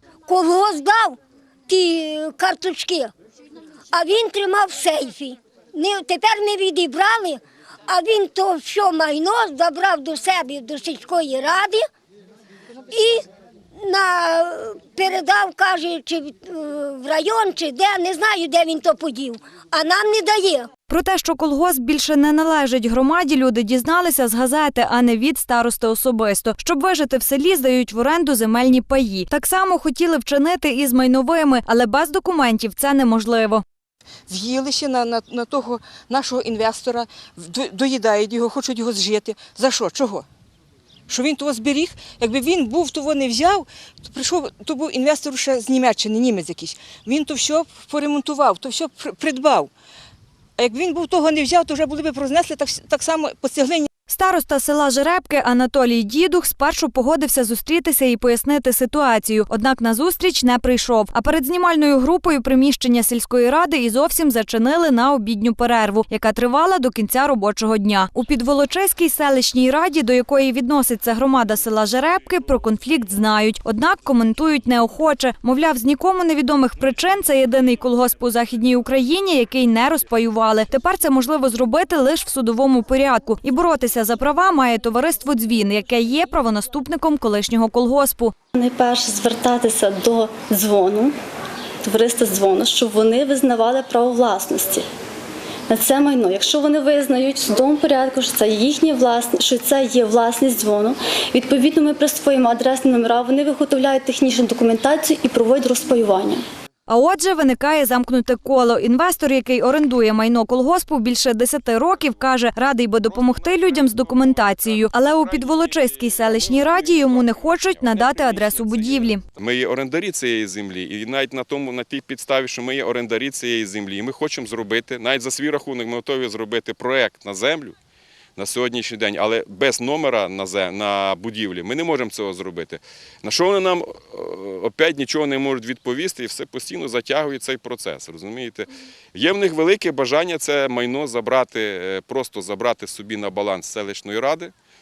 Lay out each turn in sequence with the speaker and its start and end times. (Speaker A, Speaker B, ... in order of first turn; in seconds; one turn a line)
Speaker A: 0.3-3.1
Speaker A: 3.9-11.8
Speaker A: 12.9-13.2
Speaker A: 13.8-20.7
Speaker B: 20.9-33.6
Speaker C: 34.3-40.3
Speaker C: 41.1-49.7
Speaker C: 50.6-53.9
Speaker B: 54.1-88.3
Speaker D: 88.5-91.1
Speaker D: 91.8-94.8
Speaker D: 95.7-106.4
Speaker B: 106.9-119.2
Speaker E: 113.0-127.8
Speaker E: 128.4-144.5